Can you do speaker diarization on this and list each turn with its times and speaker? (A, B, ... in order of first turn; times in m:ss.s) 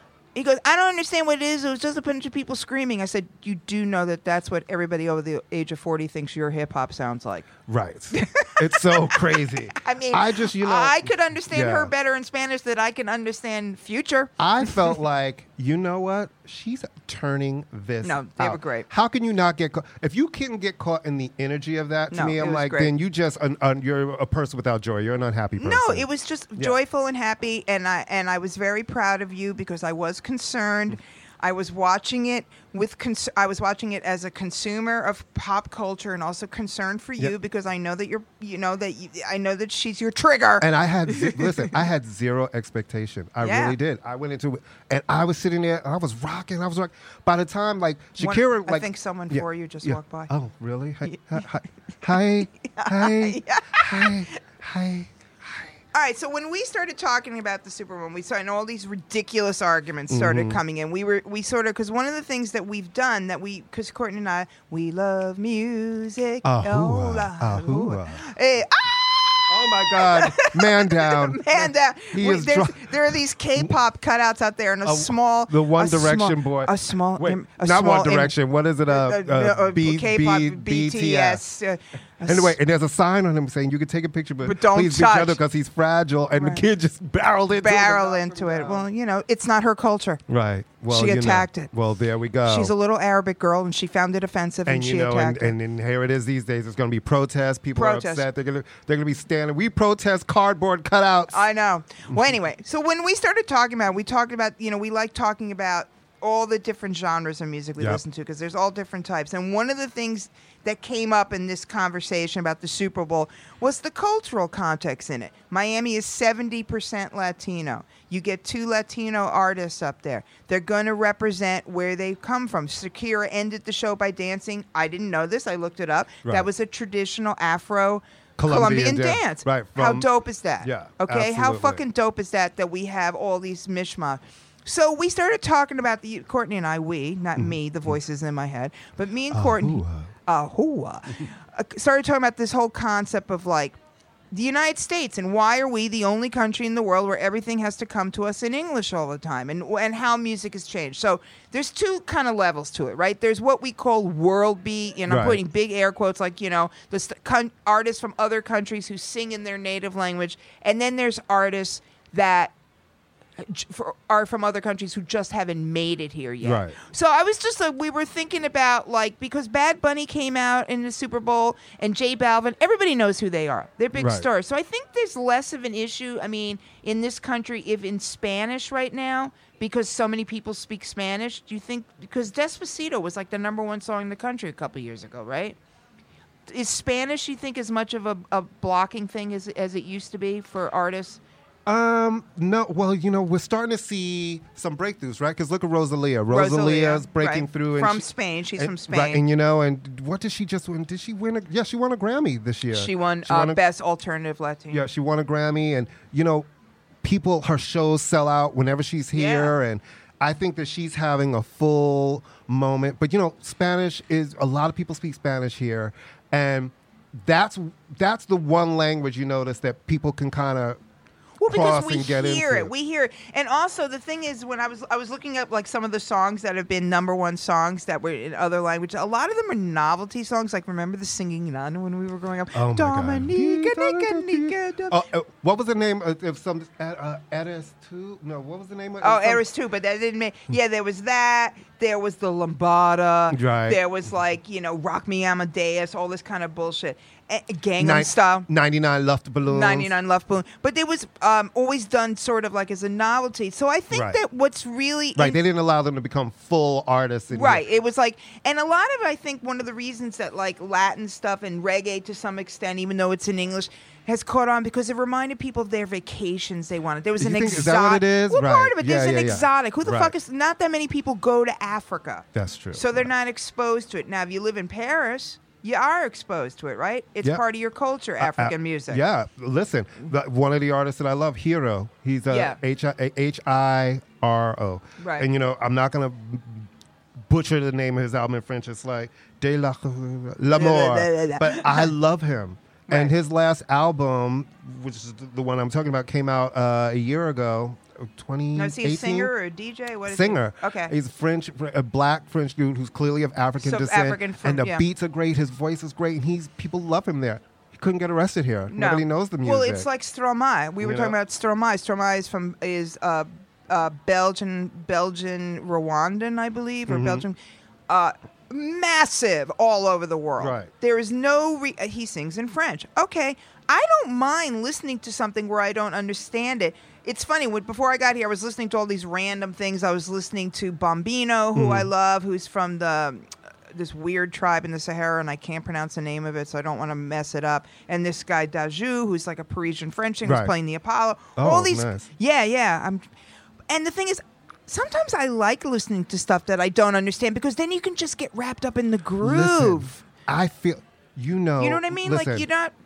0:00.3-0:07.5 A
0:07.7-0:11.9 B
0:08.1-0:14.9 A
0:14.4-0:26.8 B
0:18.0-0:18.9 A
0:22.1-0:22.9 A
0:25.6-0:41.7 A
0:40.6-0:55.7 B
0:43.4-0:43.8 A
0:48.2-0:50.3 A
0:52.6-0:54.4 A
0:55.9-1:18.3 A
1:00.1-1:00.6 B
1:06.4-1:08.3 B
1:09.5-1:13.7 B
1:14.8-1:21.4 B
1:18.9-1:22.5 A
1:22.2-1:28.9 B
1:24.4-1:25.4 A
1:26.3-1:26.6 A
1:27.6-1:30.2 A
1:30.3-1:32.7 B
1:30.9-1:31.7 A
1:32.4-1:35.6 A
1:34.7-1:41.5 B
1:37.7-1:38.2 A
1:41.3-2:23.8 A
2:08.4-2:10.1 B
2:10.6-2:11.8 B
2:19.3-2:20.1 B
2:24.3-2:42.5 A
2:35.1-2:35.4 B
2:43.4-3:05.6 A
2:46.4-2:46.7 B
2:53.9-2:54.3 B
3:06.5-3:11.2 A
3:11.6-3:23.6 B
3:16.3-3:19.2 A
3:22.7-3:24.8 A
3:24.7-3:26.5 B
3:27.0-3:40.8 B
3:29.1-3:29.5 A
3:41.4-3:55.0 A
3:41.4-3:42.7 B
3:52.5-3:59.4 B
3:59.0-4:08.5 A
4:03.3-4:03.8 B
4:07.8-4:09.9 B
4:09.5-4:15.4 A
4:13.9-4:14.2 B
4:15.2-4:17.6 B
4:17.3-4:39.0 A
4:27.2-4:30.1 B
4:32.3-4:33.1 B
4:38.2-4:46.7 B
4:42.3-4:42.6 A
4:45.0-4:45.2 A
4:47.2-4:59.3 B
4:50.5-4:51.9 A
4:52.9-4:53.1 A
4:58.5-5:00.9 A
5:00.0-5:09.9 B
5:03.6-5:04.8 A
5:08.7-5:17.4 A
5:10.8-5:11.2 B
5:16.9-5:17.2 B
5:17.9-5:43.0 A
5:20.4-5:20.7 B
5:31.5-5:31.9 B
5:40.2-5:40.5 B
5:41.4-5:42.1 B
5:43.7-5:50.0 A
5:49.2-5:52.5 B
5:51.6-5:52.7 A